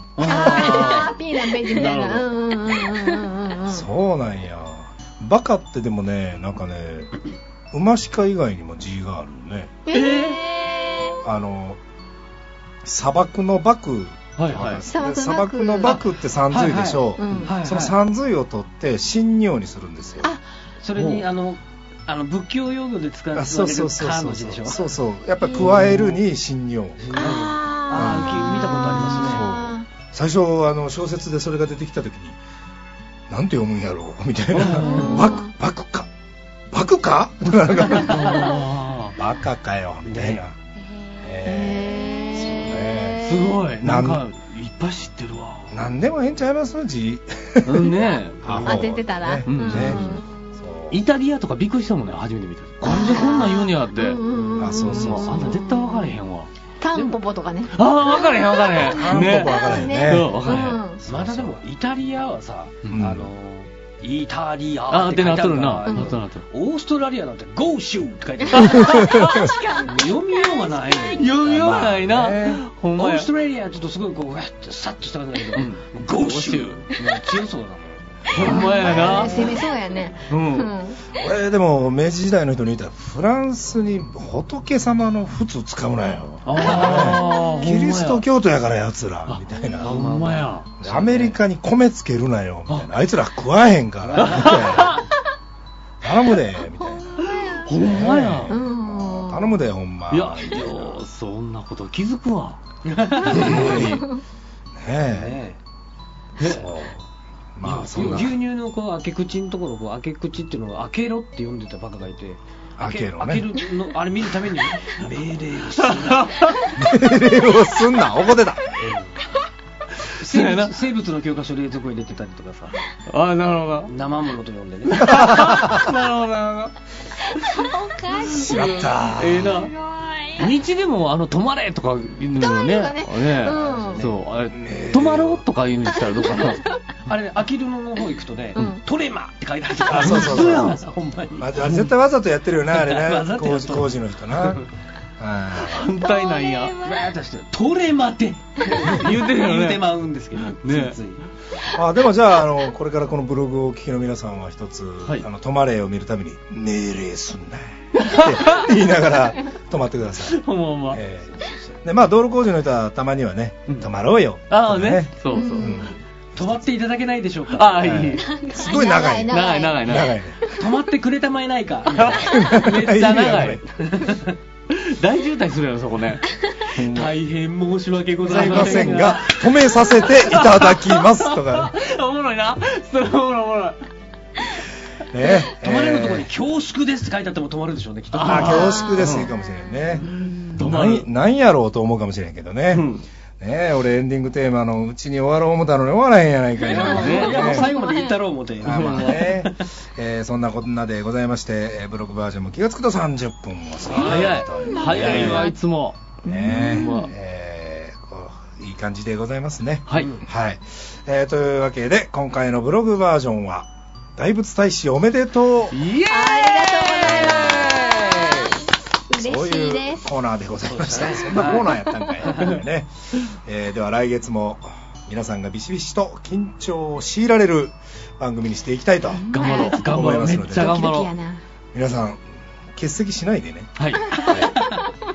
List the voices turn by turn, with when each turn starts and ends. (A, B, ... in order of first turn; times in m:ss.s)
0:00.2-0:01.2 A
0:00.2-0:03.9 B
0:00.4-0:01.0 C
0:01.7-0:02.3 A
0:03.7-0:07.1 D
0:07.7-0:09.7 D
0:09.9-0:11.2 B
0:09.9-0:10.4 A
0:11.2-0:11.8 D
0:12.8-0:20.3 D
0:14.4-0:14.8 A
0:14.9-0:16.0 B
0:15.9-0:18.0 E
0:17.2-0:17.6 B
0:20.8-0:24.9 E
0:20.9-0:21.3 A
0:23.3-0:27.4 D
0:25.6-0:26.1 A
0:27.0-0:29.5 E
0:27.2-0:29.9 B
0:27.9-0:32.4 D
0:28.6-0:29.3 A
0:33.3-0:36.1 D
0:34.5-0:35.3 A
0:34.8-0:35.5 B
0:34.8-0:35.1 E
0:36.7-0:38.6 D
0:37.7-0:39.2 A
0:38.0-0:38.6 E
0:39.2-0:40.6 D
0:40.1-0:40.4 E
0:40.8-0:41.4 C
0:41.2-0:44.2 D
0:41.4-0:43.6 B
0:42.0-0:42.6 C
0:43.2-0:45.7 A
0:45.7-0:51.0 D
0:47.6-0:48.8 A
0:48.6-0:50.2 B
0:49.5-0:50.2 A
0:50.9-0:54.2 A
0:52.8-0:56.2 B
0:54.3-0:54.7 E
0:54.6-0:55.6 D
0:54.8-0:56.5 A
0:56.8-1:01.0 B
0:57.7-1:00.8 A
0:58.9-1:00.4 D
1:01.0-1:01.6 D
1:01.1-1:09.3 E
1:02.9-1:03.3 D
1:04.9-1:06.4 A
1:05.9-1:06.2 B
1:08.6-1:09.4 A
1:08.7-1:11.0 C
1:08.8-1:09.5 D
1:09.9-1:11.8 E
1:11.1-1:13.3 A
1:11.4-1:12.6 D
1:13.0-1:19.6 E
1:15.5-1:16.9 A
1:18.3-1:19.5 A
1:18.4-1:21.0 B
1:20.3-1:20.7 A
1:21.1-1:30.1 D
1:26.4-1:28.2 A
1:26.7-1:27.1 E
1:29.3-1:30.7 A
1:29.8-1:31.4 E
1:30.8-1:35.0 D
1:34.0-1:35.0 E
1:34.2-1:35.0 A
1:36.0-1:41.0 D
1:37.4-1:38.5 A
1:38.5-1:39.6 B
1:40.1-1:42.6 A
1:42.9-1:43.9 E
1:43.2-1:44.1 A
1:43.3-1:44.1 D
1:44.8-1:45.4 D
1:45.1-1:45.6 E
1:46.4-1:46.7 A
1:46.4-1:46.7 E
1:46.4-1:47.0 D
1:47.6-1:48.4 D
1:47.6-1:48.4 A
1:47.9-1:56.6 E
1:52.8-1:53.5 D
1:55.8-1:56.7 A
1:56.8-1:58.6 D
1:58.8-1:59.2 E
2:00.2-2:02.8 E
2:00.2-2:00.7 A
2:03.1-2:03.9 A
2:03.9-2:05.7 E
2:04.9-2:06.7 A
2:05.1-2:05.9 D
2:07.3-2:10.6 C
2:07.4-2:07.6 A
2:08.3-2:09.6 D
2:08.4-2:09.7 A
2:10.4-2:16.6 A
2:12.4-2:14.1 B
2:13.4-2:14.2 E
2:14.5-2:15.4 D
2:17.0-2:21.8 E
2:19.9-2:24.6 D
2:19.9-2:20.9 A
2:22.7-2:24.7 E
2:25.2-2:25.9 D
2:25.6-2:26.8 A
2:26.0-2:27.1 C
2:26.8-2:31.3 E
2:28.7-2:29.9 A
2:30.5-2:31.0 A
2:31.7-2:41.3 D
2:38.0-2:38.7 A
2:40.3-2:41.0 A
2:41.3-2:41.8 E
2:41.8-2:46.6 D
2:44.5-2:45.9 A
2:45.3-2:45.9 B
2:46.4-2:48.2 E
2:47.5-2:48.4 A
2:47.8-2:50.6 D
2:48.2-2:48.8 C
2:48.5-2:49.8 B
2:49.3-2:50.2 A
2:50.5-2:52.5 E
2:51.9-2:53.6 A
2:52.2-2:53.6 D
2:53.8-2:54.4 E
2:54.7-2:56.3 A
2:56.8-2:57.1 D
2:56.8-2:59.3 E
2:58.2-3:01.7 D
2:58.3-3:03.8 A
3:05.1-3:06.3 D
3:05.6-3:09.0 E
3:08.1-3:09.3 A
3:08.2-3:12.9 D
3:08.5-3:09.1 B
3:10.0-3:10.6 B
3:10.6-3:11.1 A
3:12.7-3:13.0 A
3:13.4-3:17.7 D
3:16.7-3:19.6 E
3:16.8-3:17.7 A
3:17.0-3:18.2 B
3:18.6-3:25.5 D
3:18.6-3:19.3 A
3:23.9-3:27.1 A
3:23.9-3:25.5 E
3:24.6-3:25.5 B
3:26.2-3:35.8 D
3:26.2-3:27.1 B
3:29.9-3:30.1 A
3:29.9-3:30.3 E
3:35.7-3:38.5 A
3:36.1-3:38.6 B
3:37.2-3:37.5 D
3:39.1-3:40.1 B
3:39.1-3:50.8 D
3:40.7-3:42.6 E
3:49.2-3:51.4 B
3:49.3-3:51.1 A
3:51.7-3:54.6 D
3:53.8-3:54.4 A